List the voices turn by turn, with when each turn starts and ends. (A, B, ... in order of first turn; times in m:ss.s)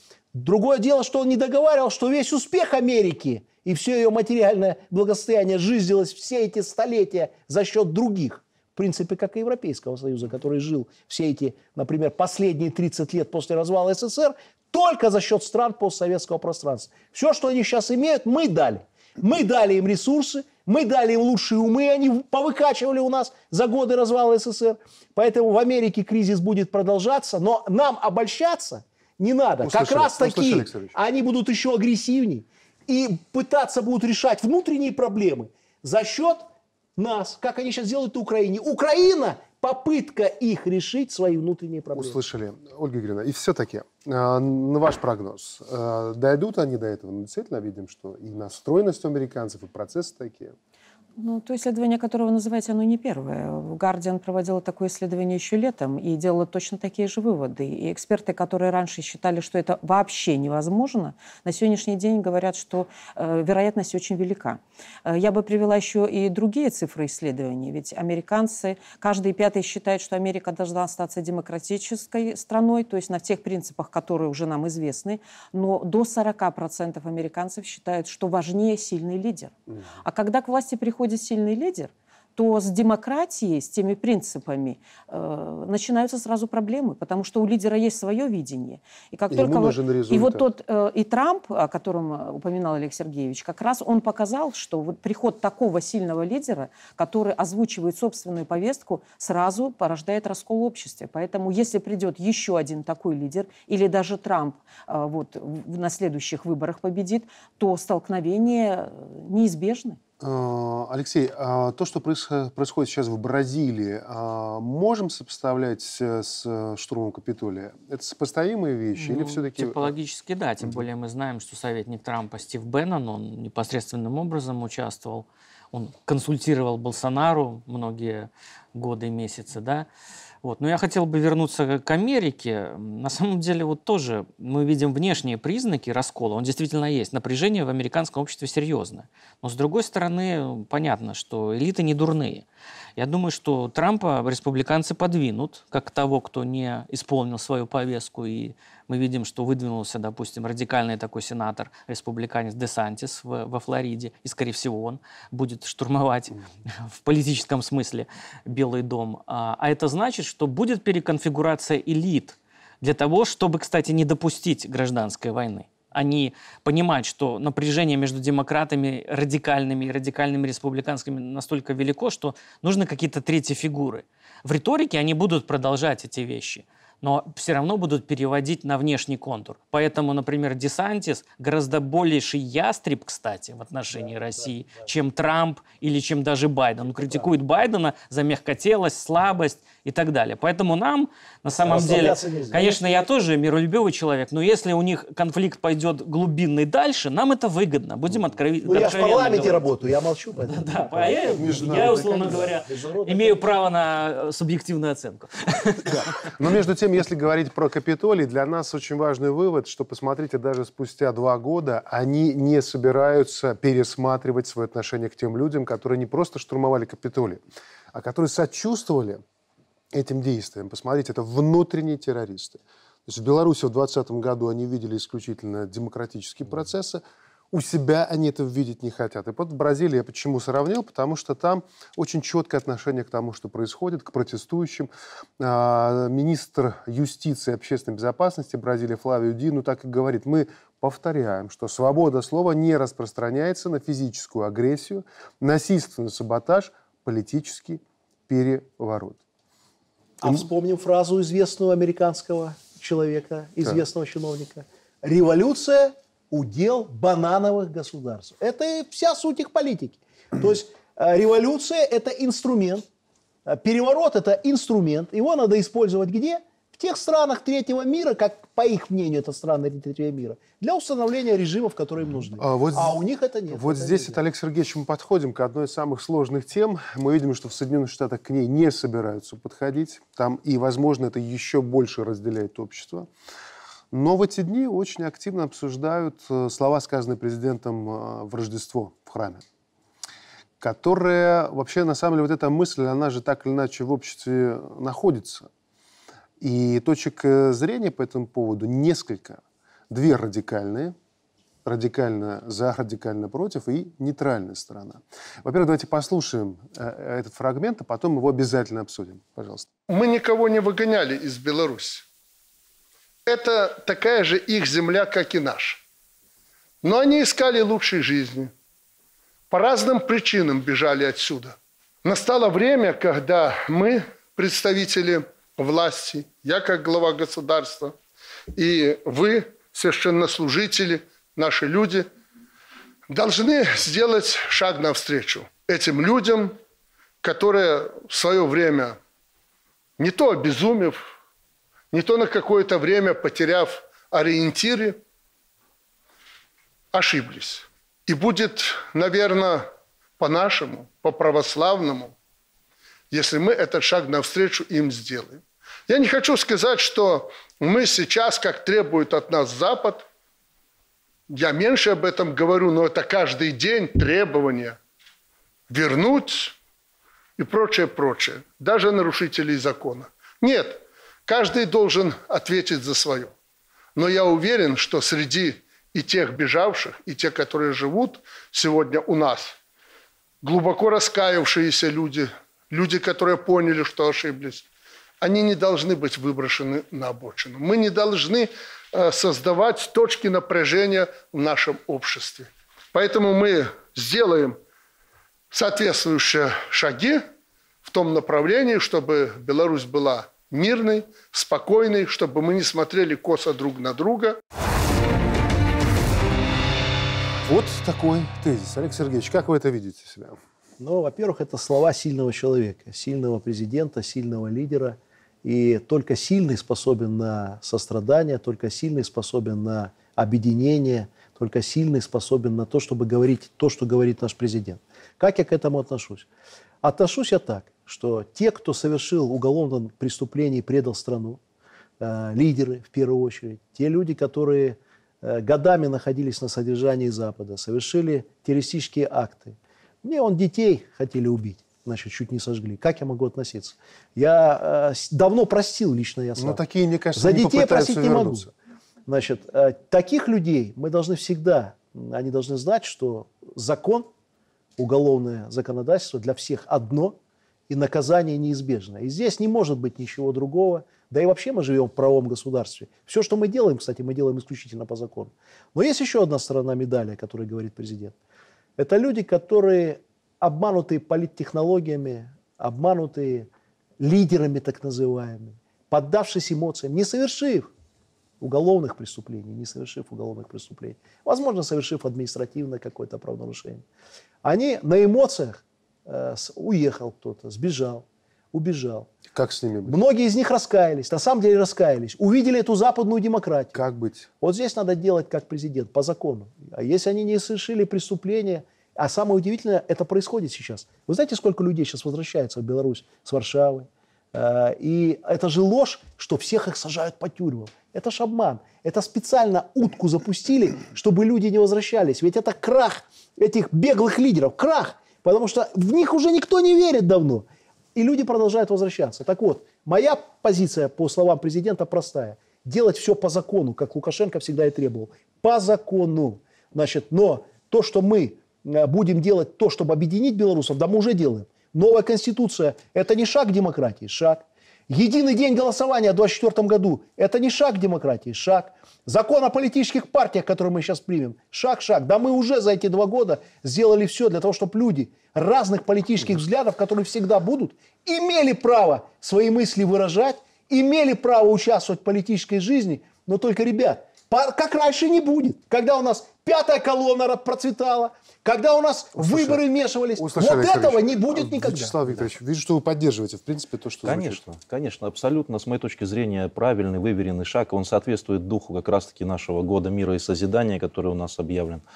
0:00.3-0:42.2 A
0:29.6-0:31.0 B
0:41.9-0:50.6 B
0:51.2-1:50.0 C
1:29.3-1:30.5 B
1:50.2-1:59.9 B
1:59.0-2:09.9 D
2:10.4-2:22.5 D
2:23.0-3:19.7 D
3:07.0-3:07.3 A
3:11.6-3:12.7 A
3:18.6-3:23.4 A
3:20.4-3:26.3 D
3:21.3-3:22.5 B
3:25.9-3:37.4 B
3:37.9-3:39.2 B
3:39.9-4:09.2 B
4:10.2-4:22.8 A
4:23.5-4:34.2 A
4:32.4-4:33.0 B
4:33.5-4:43.1 B
4:43.9-4:49.4 B
4:50.6-4:55.5 B
4:56.4-5:01.0 B
5:01.6-5:09.7 B
5:09.9-5:12.0 E
5:13.3-5:15.8 E
5:16.8-5:18.5 E
5:19.5-5:28.0 E
5:28.6-5:32.1 E
5:33.1-5:36.6 E
5:37.2-5:39.0 E
5:40.0-5:41.0 E
5:41.9-5:45.0 E
5:46.9-5:49.7 E
5:50.2-5:52.1 E
5:53.1-6:00.1 E
6:01.3-6:04.8 E
6:05.7-6:06.6 E
6:07.4-6:13.3 E
6:14.0-6:19.6 E
6:20.4-6:24.7 E
6:25.2-6:34.6 E
6:35.5-6:37.2 E
6:37.8-6:44.4 E
6:47.4-6:50.4 B
6:50.8-7:06.3 A
7:06.8-7:11.4 A
7:12.0-7:26.6 A
7:26.4-7:28.5 B
7:27.2-7:28.5 A
7:29.1-7:34.1 A
7:34.8-7:37.2 A
7:37.7-7:48.2 A
7:48.8-7:53.5 A
7:54.0-7:57.7 A
7:58.4-8:03.8 A
8:04.4-8:09.1 A
8:09.3-8:10.0 B
8:09.9-8:13.8 A
8:13.7-8:14.3 B
8:14.4-9:22.0 A
9:19.2-9:19.6 B
9:20.2-9:24.4 B
9:24.0-9:31.8 F